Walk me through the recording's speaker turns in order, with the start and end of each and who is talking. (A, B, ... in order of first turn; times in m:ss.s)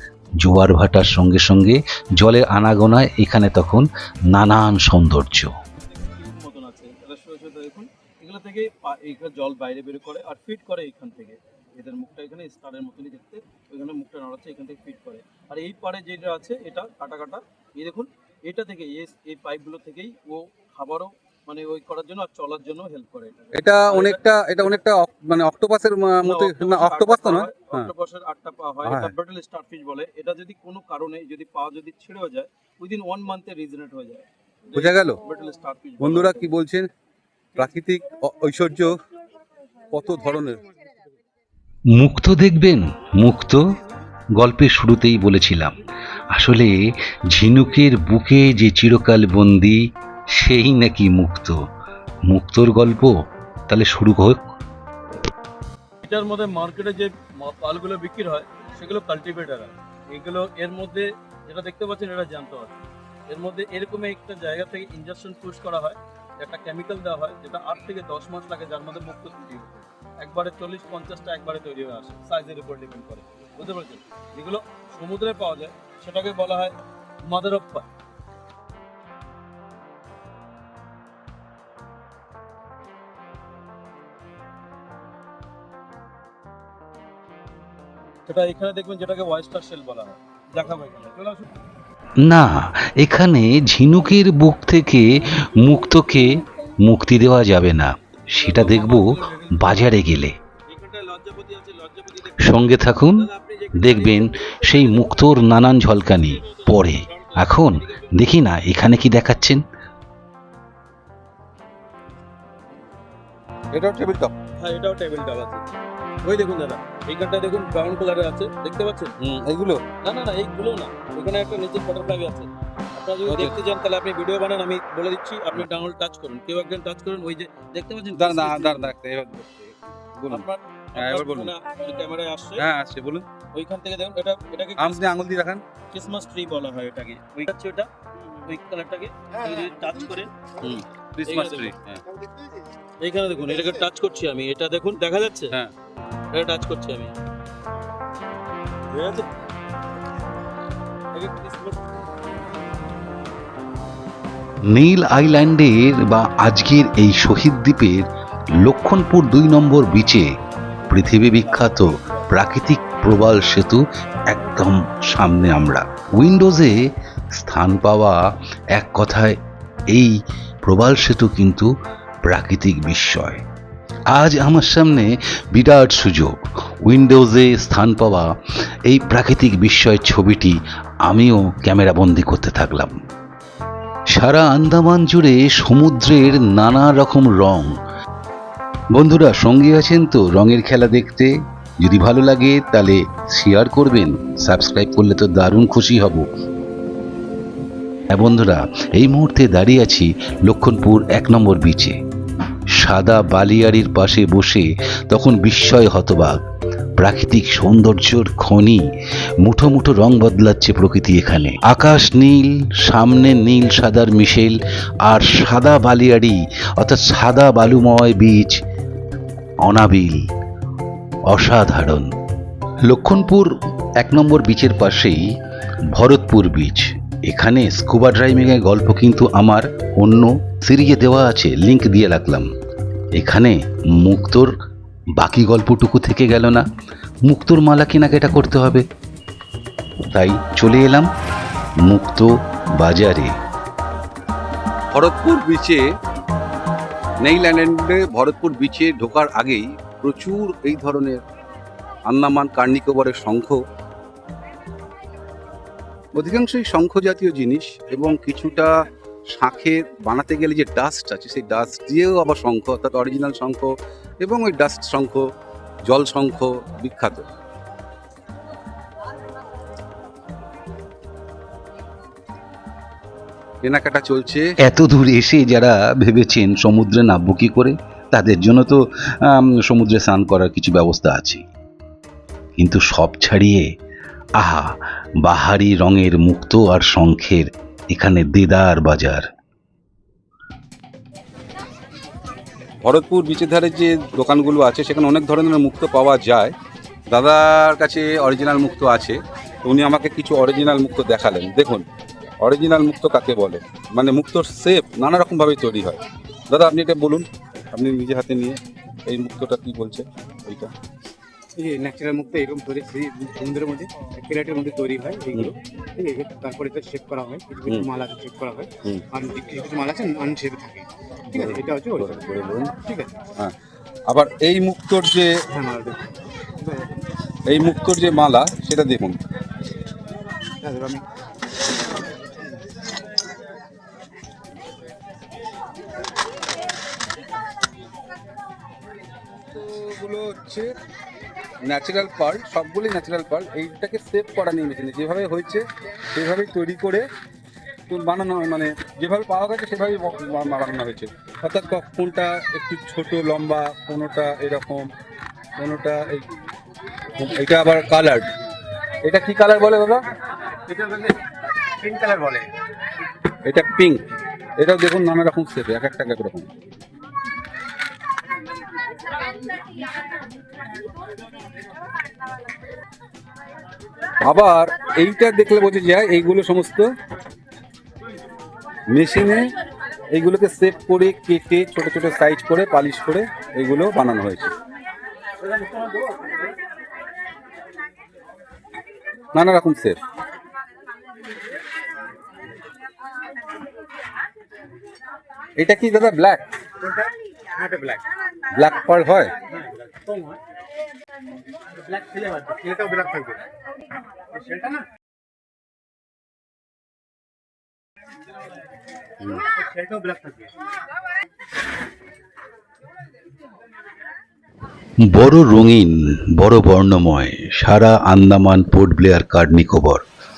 0:00.4-0:05.5 A
0:05.8-0:24.2 B
0:23.5-0:27.9 C
0:26.2-0:36.5 B
0:28.8-0:29.1 C
0:34.8-0:35.2 C
0:36.0-0:36.9 C
0:37.5-0:39.0 C
0:39.9-0:40.7 C
0:41.9-0:43.6 A
0:44.3-0:45.8 A
0:46.3-0:51.6 A
0:52.2-0:53.1 A
0:53.7-0:54.4 A
0:56.0-1:17.9 B
1:28.3-1:31.5 B
1:32.2-1:40.3 A
1:38.3-1:40.0 B
1:40.7-1:48.1 B
1:42.4-1:49.6 A
1:53.7-1:54.3 C
1:54.6-1:55.6 B
1:56.2-1:59.1 B
1:59.2-1:59.8 C
2:00.0-2:08.9 B
2:03.2-2:03.5 C
2:08.2-2:11.5 C
2:10.3-2:12.6 B
2:12.6-2:13.2 C
2:13.5-2:15.0 B
2:14.8-2:15.6 C
2:15.9-2:20.3 B
2:20.6-2:22.0 C
2:21.2-2:21.7 B
2:23.0-2:25.6 B
2:26.3-2:27.2 B
2:28.9-2:29.2 B
2:31.1-2:31.8 B
2:34.7-2:40.3 A
2:40.8-2:42.4 B
2:40.9-2:48.2 A
2:48.7-2:49.4 A
2:49.9-2:51.7 A
2:52.2-2:53.4 A
2:54.1-2:58.3 A
2:58.8-3:03.0 A
3:04.1-3:07.7 A
3:08.9-3:16.2 A
3:18.1-3:22.0 A
3:22.7-3:26.4 A
3:27.0-3:28.8 A
3:29.4-3:38.6 A
3:39.6-3:40.3 A
3:41.3-3:42.1 A
3:42.8-3:45.3 A
3:45.9-3:52.5 A
3:53.1-3:54.6 A
3:55.2-3:56.6 A
3:57.2-3:58.8 A
4:00.1-4:01.1 A
4:01.8-4:03.3 A
4:04.9-4:05.8 C
4:07.2-4:11.2 C
4:12.1-4:13.6 C
4:16.1-4:18.7 C
4:19.3-4:25.2 C
4:25.8-4:27.2 C
4:33.6-4:34.5 C
4:34.6-4:41.4 A
4:42.6-4:43.7 A
4:44.4-4:49.2 A
4:52.8-4:56.6 C
4:57.1-5:01.8 C
5:02.4-5:10.7 C
5:11.6-5:22.2 D
5:21.3-5:22.7 C
5:22.7-5:23.2 D
5:24.1-5:25.3 C
5:25.5-5:26.9 D
5:27.5-5:29.2 C
5:30.6-5:31.0 D
5:39.5-5:40.7 C
5:41.7-5:47.1 C
5:47.9-5:54.9 C
5:55.6-5:56.2 C
5:57.2-5:58.3 C
5:59.0-6:00.0 C
6:00.7-6:01.2 D
6:01.7-6:02.5 D
6:03.4-6:04.0 C
6:04.6-6:06.5 C
6:14.2-6:16.9 C
6:18.9-6:19.5 C
6:20.1-6:24.5 C
6:25.7-6:26.0 B
6:29.3-6:30.0 C
6:35.6-6:36.4 C
6:36.8-6:38.0 D
6:38.5-6:39.3 C
6:39.5-6:40.4 D
6:41.9-6:43.4 D
6:44.4-6:44.8 D
6:49.4-6:50.5 D
6:55.0-7:00.0 A